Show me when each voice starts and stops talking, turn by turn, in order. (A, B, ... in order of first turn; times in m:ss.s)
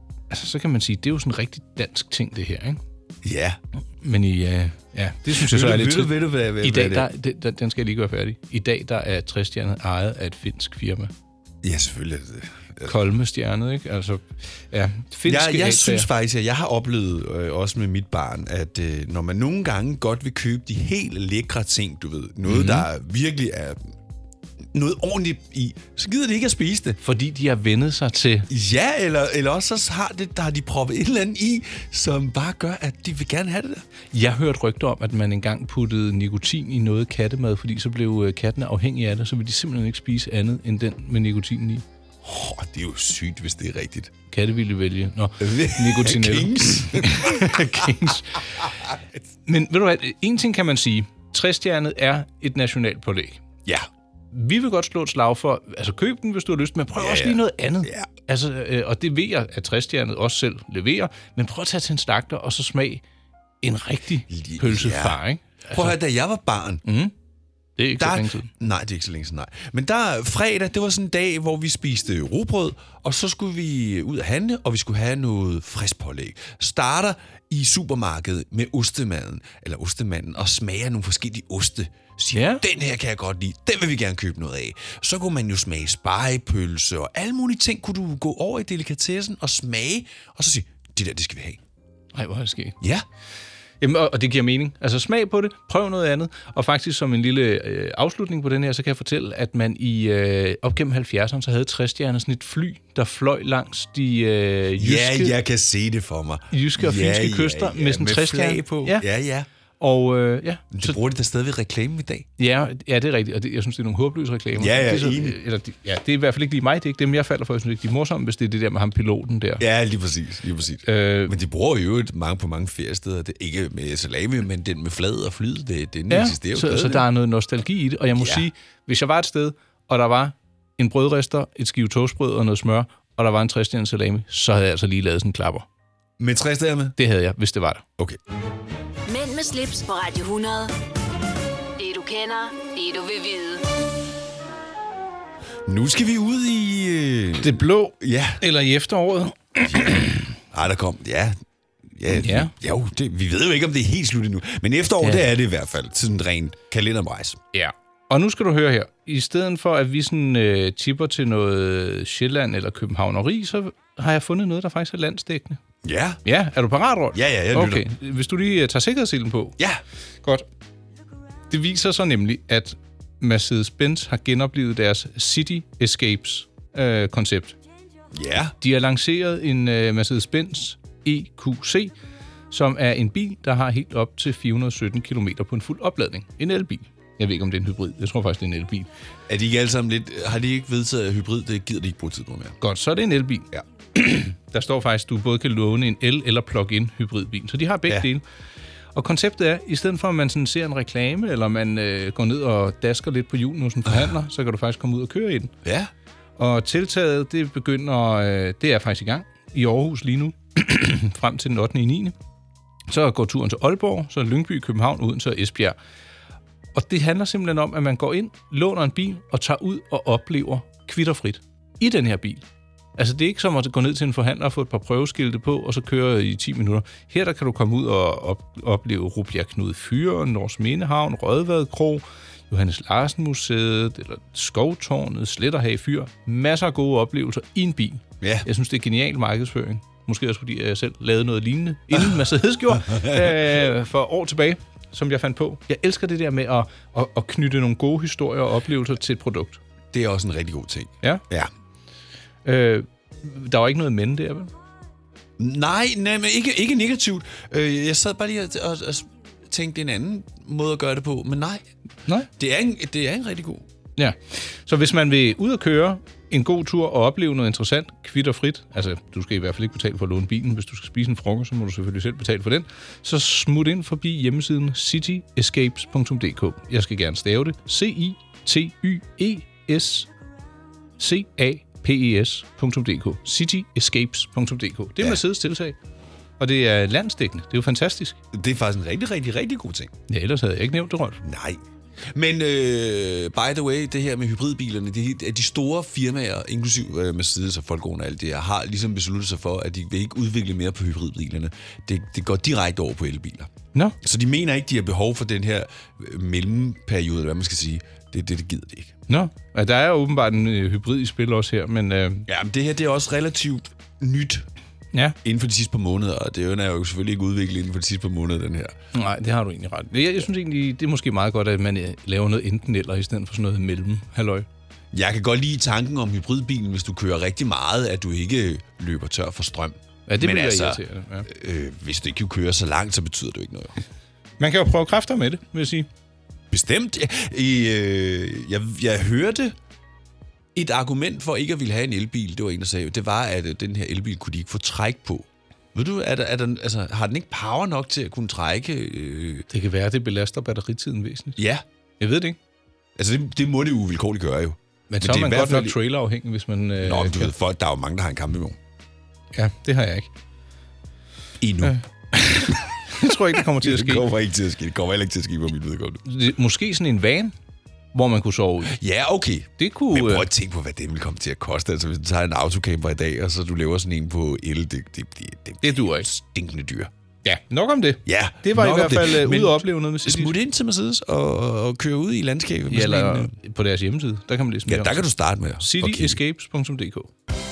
0:00.3-0:02.8 A
0:03.2-0:03.6 B
0:04.0-0:11.1 A
0:05.3-0:07.1 B
0:11.6-0:12.9 B
0:12.8-0:16.1 A
0:15.3-0:23.9 B
0:22.5-0:22.9 A
0:24.7-0:27.0 B
0:27.0-0:28.5 A
0:28.5-0:33.8 B
0:34.1-0:41.8 A
0:42.2-0:44.1 B
0:44.3-0:48.4 A
0:45.4-0:47.9 B
0:49.5-0:53.4 A
0:54.3-1:03.0 A
0:57.0-0:58.1 B
1:03.6-1:06.0 A
1:04.3-1:05.2 B
1:05.7-1:06.8 B
1:06.8-1:07.1 A
1:07.8-1:08.5 A
1:08.0-1:31.6 B
1:22.3-1:22.6 A
1:32.1-1:32.8 A
1:33.8-1:45.4 A
1:44.8-1:49.5 B
1:46.5-1:49.1 A
1:49.8-1:51.0 A
1:50.7-1:52.3 B
1:52.4-1:59.6 A
1:54.6-1:55.4 B
1:59.6-2:07.1 B
2:00.9-2:01.3 A
2:06.1-2:15.7 A
2:08.2-2:08.5 B
2:16.2-2:17.0 B
2:17.0-2:17.8 A
2:19.1-2:20.7 C
2:21.8-2:23.7 C
2:25.7-2:28.4 B
2:27.4-2:30.3 A
2:29.6-2:31.4 B
2:31.9-2:37.4 B
2:32.1-2:32.5 A
2:37.5-2:45.6 A
2:45.8-2:46.2 B
2:46.2-2:49.6 A
2:47.1-2:47.8 B
2:51.5-2:57.6 A
2:58.1-2:58.6 B
2:58.6-3:01.9 A
3:02.5-3:08.9 A
3:09.3-3:12.6 B
3:12.6-3:18.2 A
3:19.0-3:25.6 A
3:25.6-3:25.9 B
3:26.4-3:32.2 A
3:32.9-3:35.8 A
3:36.7-3:42.4 A
3:43.0-4:09.6 A
3:58.2-3:58.5 B
4:02.7-4:03.5 B
4:09.9-4:11.5 B
4:12.4-4:14.5 A
4:15.4-4:21.6 B
4:22.3-4:23.6 B
4:24.0-4:40.1 A
4:41.0-4:45.8 A
4:46.4-4:48.2 A
4:48.3-4:49.9 B
4:50.1-4:51.2 A
4:51.2-5:03.5 B
5:04.0-5:09.0 B
5:09.1-5:12.3 A
5:12.3-5:14.5 B
5:15.2-5:18.8 B
5:18.9-5:24.5 A
5:24.9-5:33.8 B
5:30.1-5:31.3 A
5:34.4-5:35.9 A
5:36.5-5:39.6 B
5:40.6-5:49.5 B
5:49.5-5:51.4 A
5:51.4-5:51.6 B
5:52.0-5:52.4 A
5:53.0-5:55.8 B
5:54.9-5:57.3 A
5:56.8-5:58.6 B
5:59.3-6:00.1 A
6:01.4-6:01.8 B
6:01.6-6:04.1 A
6:03.3-6:06.0 B
6:06.1-6:07.3 A
6:07.9-6:08.8 A
6:08.7-6:16.9 B
6:09.6-6:10.3 A
6:15.6-6:16.1 A
6:17.2-6:20.4 A
6:18.1-6:23.3 B
6:22.7-6:25.1 A
6:24.7-6:26.2 B
6:25.6-6:27.1 A